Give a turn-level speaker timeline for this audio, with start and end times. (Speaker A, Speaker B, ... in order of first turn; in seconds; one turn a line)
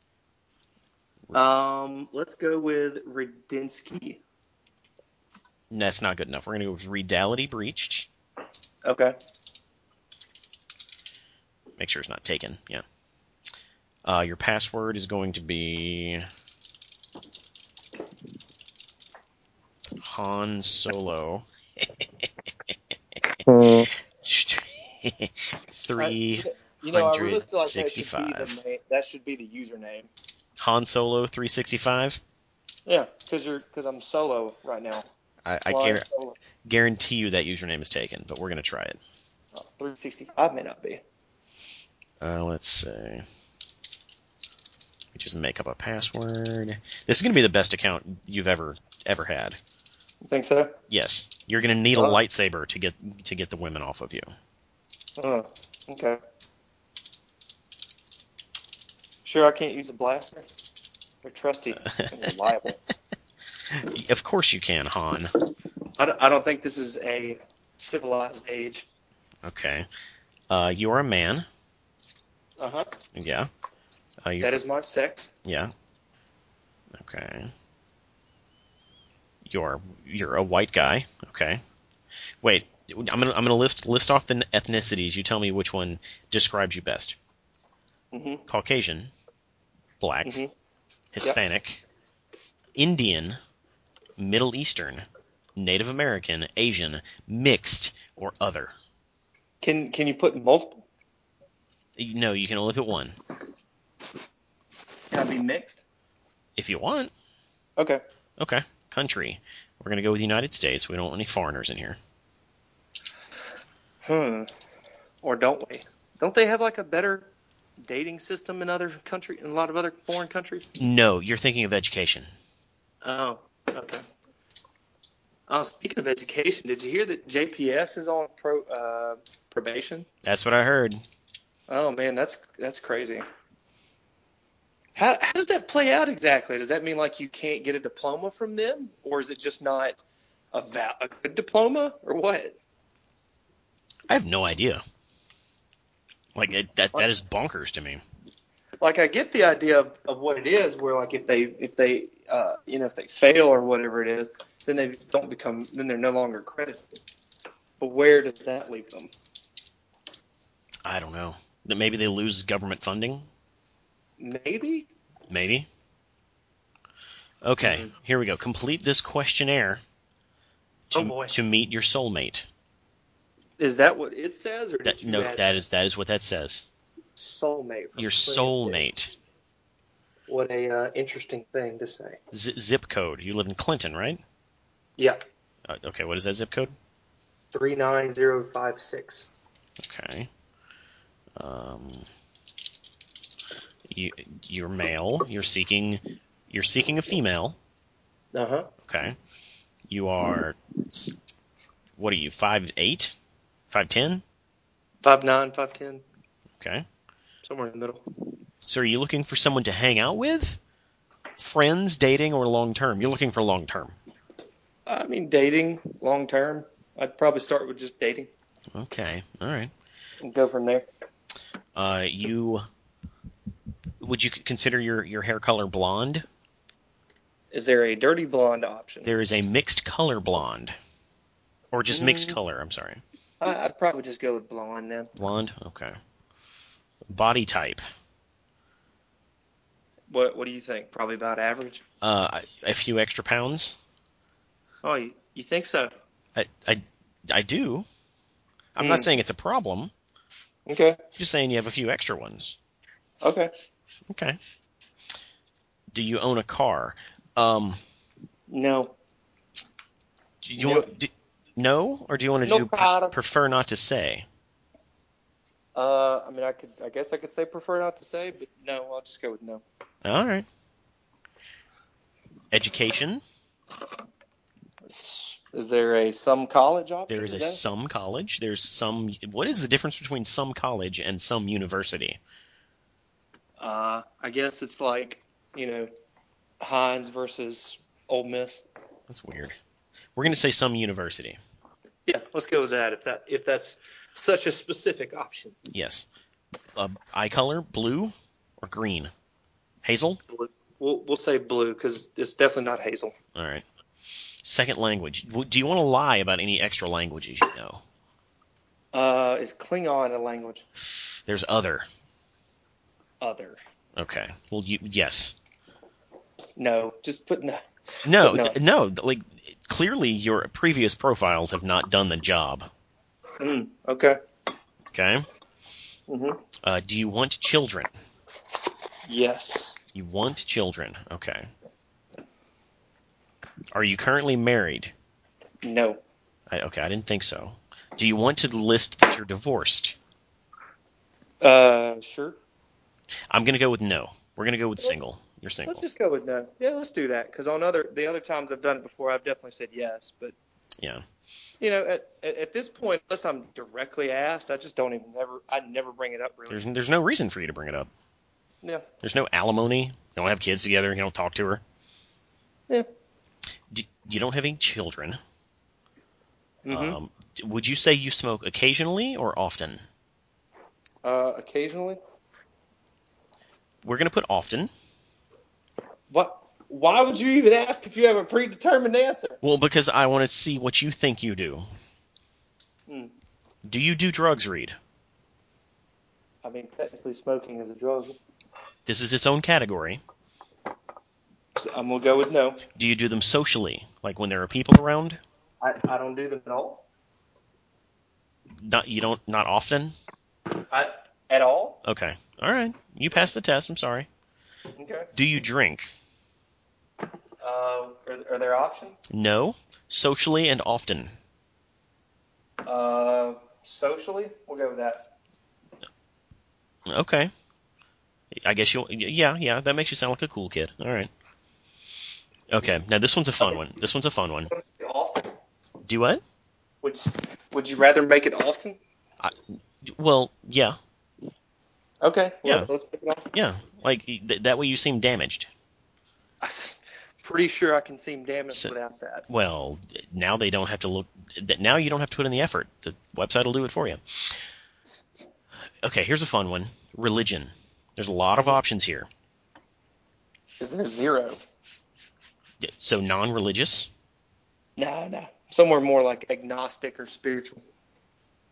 Speaker A: 1.3-4.2
Speaker B: 5.7-8.1
Speaker A: 8.8-9.2
Speaker B: 11.8-12.8
Speaker B: 14.1-16.2
Speaker B: 20.0-22.3
Speaker A: 23.5-23.9
Speaker B: 24.1-28.6
Speaker A: 26.0-30.1
Speaker B: 30.6-32.2
Speaker A: 32.9-35.1
Speaker B: 35.5-36.0
Speaker A: 35.7-36.4
Speaker B: 36.6-39.0
Speaker A: 39.5-41.0
Speaker B: 42.2-43.2
Speaker B: 45.1-49.6
Speaker A: 50.3-50.8
Speaker B: 50.9-54.3
Speaker A: 55.2-56.2
Speaker A: 59.2-60.5
Speaker A: 61.2-62.8
Speaker B: 61.8-62.3
Speaker B: 63.7-65.3
Speaker A: 66.0-68.9
Speaker B: 69.4-69.9
Speaker B: 70.5-71.5
Speaker A: 72.6-72.9
Speaker B: 73.2-73.5
Speaker B: 74.2-74.6
Speaker A: 74.4-75.3
Speaker B: 75.5-75.7
Speaker B: 77.0-77.5
Speaker B: 79.5-81.6
Speaker B: 82.4-87.2
Speaker A: 88.1-88.4
Speaker B: 88.5-89.1
Speaker B: 90.0-90.4
Speaker A: 90.2-90.5
Speaker B: 91.1-91.8
Speaker B: 92.8-93.4
Speaker B: 94.2-98.7
Speaker A: 99.6-100.8
Speaker B: 102.0-103.2
Speaker A: 105.1-105.8
Speaker B: 106.6-107.1
Speaker B: 108.4-112.0
Speaker A: 114.0-114.5
Speaker A: 115.2-117.3
Speaker A: 117.8-120.7
Speaker B: 120.8-122.3
Speaker A: 123.0-124.0
Speaker A: 125.5-130.1
Speaker B: 130.2-131.0
Speaker A: 131.7-133.2
Speaker A: 135.0-140.0
Speaker A: 140.5-142.6
Speaker B: 144.1-144.8
Speaker B: 146.4-148.0
Speaker A: 148.8-156.8
Speaker A: 157.8-159.1
Speaker B: 160.8-163.3
Speaker A: 164.2-164.9
Speaker B: 165.3-165.7
Speaker B: 167.4-169.8
Speaker A: 167.6-167.9
Speaker B: 170.9-172.5
Speaker A: 170.9-171.3
Speaker A: 173.6-175.4
Speaker B: 174.8-176.7
Speaker A: 177.2-178.8
Speaker B: 178.0-179.2
Speaker A: 180.3-182.2
Speaker B: 182.3-184.2
Speaker B: 185.7-186.7
Speaker A: 187.5-189.3
Speaker B: 189.8-190.3
Speaker B: 191.4-192.1
Speaker B: 193.9-197.6
Speaker A: 198.3-198.7
Speaker B: 198.8-199.2
Speaker B: 199.9-201.2
Speaker B: 202.0-203.2
Speaker B: 203.7-204.2
Speaker A: 205.0-206.0
Speaker B: 206.6-206.8
Speaker A: 207.4-208.0
Speaker B: 208.7-210.6
Speaker B: 211.4-214.0
Speaker A: 214.9-218.3
Speaker B: 218.8-219.7
Speaker A: 220.2-220.8
Speaker B: 221.8-222.6
Speaker B: 224.0-226.2
Speaker A: 227.5-229.1
Speaker B: 229.1-230.8
Speaker B: 231.7-233.0
Speaker A: 231.9-232.4
Speaker A: 233.4-235.1
Speaker B: 235.2-235.9
Speaker B: 237.1-237.8
Speaker A: 240.1-241.8
Speaker B: 242.0-243.8
Speaker A: 244.8-245.9
Speaker B: 246.3-247.9
Speaker B: 248.8-249.9
Speaker A: 248.8-249.1
Speaker A: 250.7-251.0
Speaker B: 251.2-252.6
Speaker A: 253.2-253.5
Speaker B: 254.1-254.4
Speaker B: 255.9-257.8
Speaker A: 258.5-258.9
Speaker B: 260.4-264.3
Speaker A: 260.6-260.9
Speaker A: 262.4-263.2
Speaker A: 265.8-269.6
Speaker B: 270.1-270.5
Speaker B: 272.5-273.2
Speaker A: 274.9-277.6
Speaker B: 277.1-282.2
Speaker A: 283.6-285.9
Speaker A: 286.6-288.6
Speaker B: 289.1-289.6
Speaker B: 290.2-291.4
Speaker A: 292.1-295.6
Speaker B: 295.7-296.1
Speaker B: 296.8-299.1
Speaker B: 299.8-300.2
Speaker A: 300.3-303.1
Speaker B: 303.4-303.6
Speaker B: 304.4-307.8
Speaker A: 308.9-310.6
Speaker B: 310.8-311.9
Speaker A: 313.2-313.6
Speaker B: 314.0-315.4
Speaker A: 316.6-317.6
Speaker B: 318.1-322.7
Speaker A: 318.2-318.6
Speaker A: 323.4-324.2
Speaker B: 324.9-325.2
Speaker A: 326.1-326.4
Speaker B: 326.6-327.9
Speaker A: 329.1-329.8
Speaker B: 329.9-331.5
Speaker B: 333.7-334.9
Speaker A: 335.6-336.0
Speaker B: 336.5-340.0
Speaker A: 341.4-342.4
Speaker B: 343.3-345.8
Speaker A: 345.7-350.4
Speaker A: 351.6-356.6
Speaker B: 356.5-357.9
Speaker B: 359.0-361.6
Speaker B: 363.7-365.2
Speaker A: 366.6-367.0
Speaker B: 366.7-369.8
Speaker A: 371.0-372.0
Speaker B: 373.8-374.7
Speaker A: 376.1-379.4
Speaker B: 379.4-381.6
Speaker A: 382.9-383.1
Speaker B: 383.6-384.8
Speaker A: 386.4-388.2
Speaker B: 388.9-390.0
Speaker A: 391.6-392.6
Speaker B: 392.8-395.2
Speaker A: 395.6-396.8
Speaker B: 398.6-399.9
Speaker A: 400.6-401.8
Speaker B: 401.9-404.1
Speaker A: 404.8-405.1
Speaker B: 405.1-405.9
Speaker A: 407.4-409.0
Speaker B: 409.1-411.1
Speaker A: 412.6-415.1
Speaker B: 416.9-417.3
Speaker B: 418.4-421.1
Speaker B: 422.5-424.5
Speaker A: 424.5-425.4
Speaker B: 425.9-426.2
Speaker A: 426.8-428.8
Speaker B: 429.2-430.8
Speaker A: 432.0-433.3
Speaker B: 433.3-435.5
Speaker A: 436.4-439.3
Speaker B: 439.3-444.4
Speaker B: 445.8-449.1
Speaker A: 450.6-451.4
Speaker B: 452.6-453.9
Speaker A: 454.8-457.6